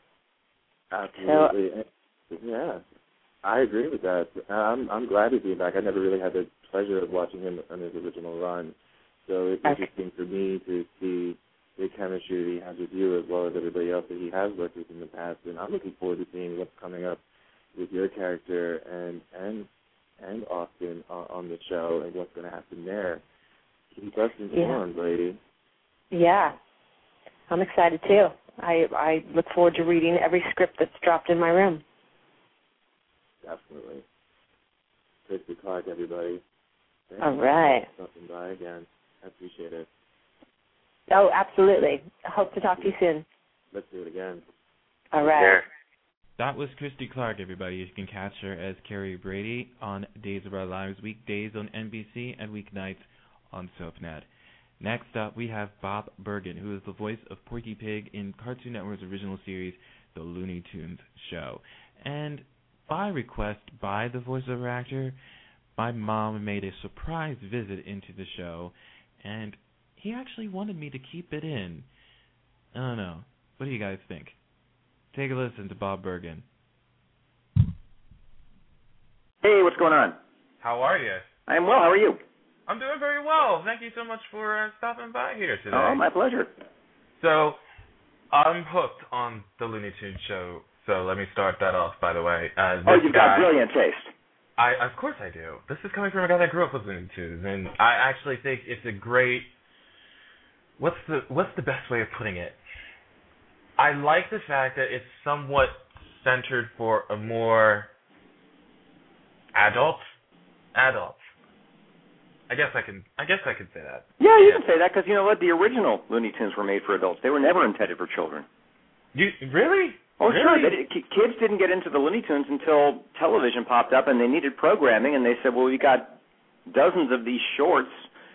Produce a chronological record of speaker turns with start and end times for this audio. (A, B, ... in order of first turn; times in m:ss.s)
0:00.9-0:02.8 A
0:01.2-0:01.5 B
0:03.4-0:08.7 A
0:09.2-0:17.2 A
0:17.7-0:19.7 A
0:20.2-0:23.2 A
0:23.9-0:25.4 A
0:24.5-0:24.8 B
0:26.1-0:26.5 B
0:27.5-0:31.8 B
0:33.4-0:34.0 A
0:35.3-0:36.4 A
0:37.1-0:39.9 A
0:37.2-0:37.8 B
0:41.1-0:43.2 B
0:43.7-0:44.4 A
0:45.1-0:45.6 B
0:46.4-0:54.3 C
0:54.8-1:05.2 C
1:05.8-1:11.9 C
1:12.7-1:14.4 C
1:15.1-1:16.4 C
1:19.4-1:20.2 D
1:20.6-1:21.2 E
1:21.5-1:22.2 D
1:22.7-1:26.0 E
1:25.7-1:26.5 D
1:27.2-1:27.6 E
1:28.3-1:33.5 E
1:32.8-1:34.1 D
1:34.6-1:39.5 E
1:40.8-1:42.6 E
1:43.8-1:47.9 E
1:49.5-1:50.1 E
1:50.7-1:51.2 E
1:52.5-1:54.6 E
1:54.2-1:58.4 D
1:59.1-2:00.8 E
2:00.2-2:06.1 D
2:06.7-2:08.0 D